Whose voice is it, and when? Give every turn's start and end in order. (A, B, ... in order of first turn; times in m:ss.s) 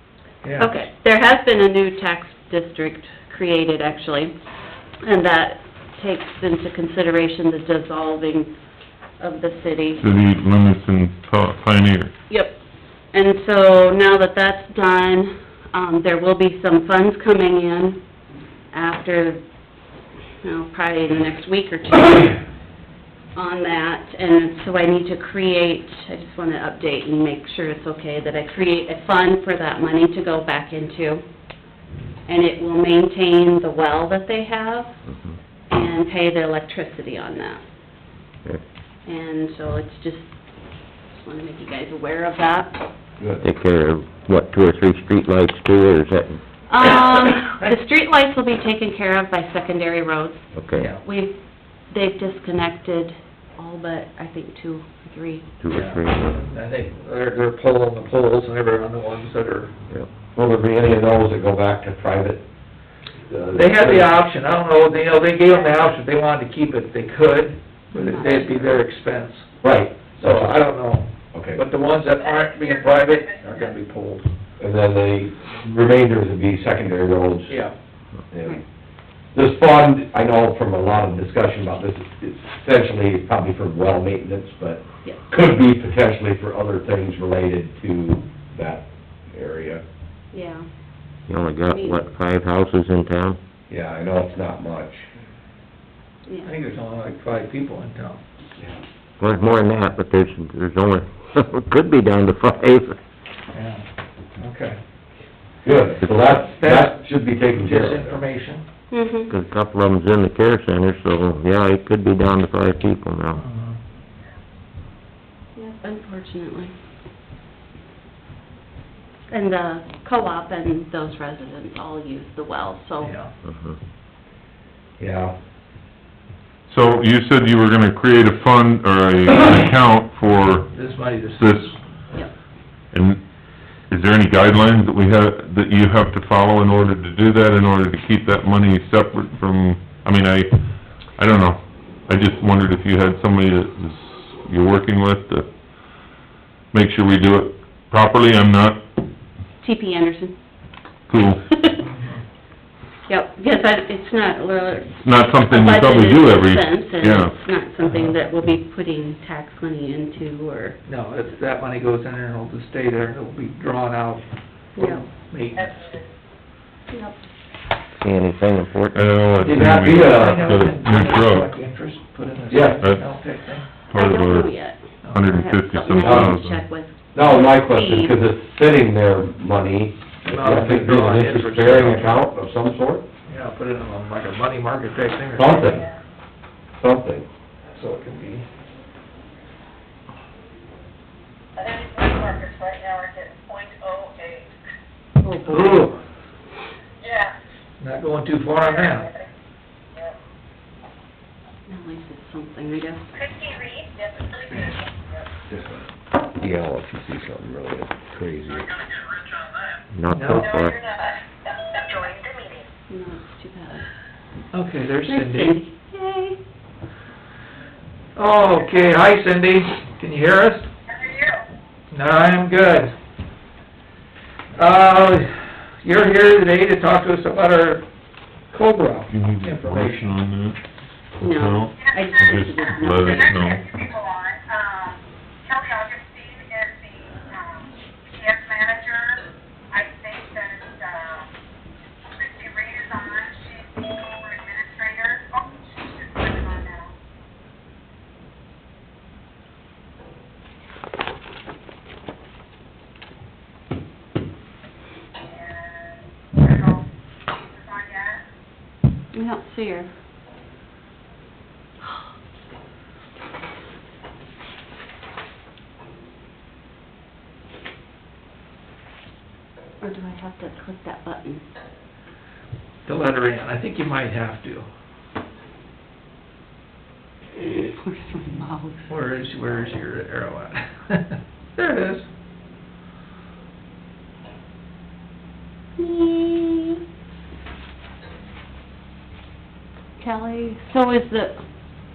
0:00.4-0:00.7 A
0:00.6-0:04.3 B
0:05.0-0:08.5 B
0:09.2-0:10.0 B
0:10.0-0:12.1 C
0:12.3-0:12.6 B
0:13.1-0:18.0 B
0:18.7-0:19.4 B
0:20.4-0:22.4 B
0:23.3-0:31.2 B
0:32.3-0:34.9 B
0:35.7-0:37.6 B
0:39.0-0:40.3 B
0:41.1-0:42.8 B
0:43.2-0:43.4 D
0:43.4-0:46.4 E
0:46.7-0:50.5 B
0:50.5-0:50.9 E
0:51.0-0:51.3 B
0:51.9-0:55.5 B
0:55.6-0:56.5 E
0:55.7-0:59.7 A
1:00.3-1:02.4 D
1:03.3-1:04.1 D
1:03.5-1:09.5 A
1:07.9-1:08.8 B
1:09.6-1:10.6 D
1:10.1-1:14.3 A
1:11.3-1:11.6 D
1:14.6-1:17.6 D
1:17.5-1:17.7 A
1:18.3-1:18.6 D
1:19.3-1:29.8 D
1:30.3-1:30.6 B
1:31.3-1:33.4 E
1:31.6-1:32.0 B
1:33.7-1:35.0 D
1:36.4-1:38.2 A
1:39.2-1:43.0 E
1:43.5-1:43.9 A
1:44.4-1:44.8 A
1:45.6-1:48.2 D
1:46.0-1:46.4 E
1:46.5-1:47.0 A
1:47.5-1:48.6 A
1:48.9-1:49.3 B
1:49.3-1:53.4 E
1:53.3-1:53.8 A
1:55.6-1:56.7 B
1:59.3-2:03.1 B
2:03.0-2:03.3 A
2:03.4-2:03.8 E
2:05.0-2:05.3 D
2:06.7-2:10.7 C
2:10.7-2:11.7 A
2:11.4-2:11.7 C
2:12.9-2:13.2 C
2:13.9-2:25.5 C
2:26.7-2:28.8 C
2:29.6-2:30.4 B
2:31.1-2:31.4 C
2:31.5-2:31.8 B
2:31.9-2:32.1 A
2:33.1-2:40.8 B
2:35.0-2:37.3 C
2:37.8-2:38.0 A
2:40.8-2:44.2 A
2:44.8-2:45.0 B
2:44.9-2:45.8 A
2:46.9-2:47.2 B
2:48.0-2:49.1 E
2:48.9-2:51.5 C
2:49.4-2:53.6 A
2:49.4-2:50.5 D
2:52.5-2:52.8 D
2:53.9-2:54.5 C
2:53.9-2:58.1 B
2:55.1-2:56.6 C
2:55.9-2:56.4 D
2:57.1-3:03.0 D
3:00.2-3:02.2 A
3:03.3-3:05.8 A
3:05.4-3:05.8 D
3:06.8-3:07.3 D
3:07.7-3:08.4 A
3:11.6-3:14.4 F
3:15.2-3:15.9 B
3:15.4-3:16.0 A
3:17.8-3:19.1 A
3:21.6-3:23.2 B
3:23.5-3:23.9 F
3:25.5-3:25.8 D
3:26.4-3:28.8 D
3:29.9-3:30.8 E
3:30.1-3:30.4 A
3:32.9-3:33.9 B
3:34.5-3:35.5 A
3:35.0-3:36.4 B
3:38.2-3:40.7 A
3:40.9-3:41.3 F
3:41.9-3:42.9 A
3:44.5-3:47.8 A
3:48.5-3:50.1 A
3:49.1-3:50.6 C
3:51.2-3:53.7 C
3:51.2-3:53.6 B
3:53.7-3:54.9 F
3:55.5-3:57.6 F
3:58.2-3:59.2 F
3:59.7-4:01.2 F
4:02.2-4:05.4 F
4:06.2-4:06.8 F
4:16.4-4:16.7 F
4:19.1-4:19.9 B
4:29.8-4:31.4 B
4:32.8-4:34.7 A
4:37.4-4:38.9 B
4:38.9-4:42.0 A
4:45.8-4:46.8 B
4:50.0-4:51.4 B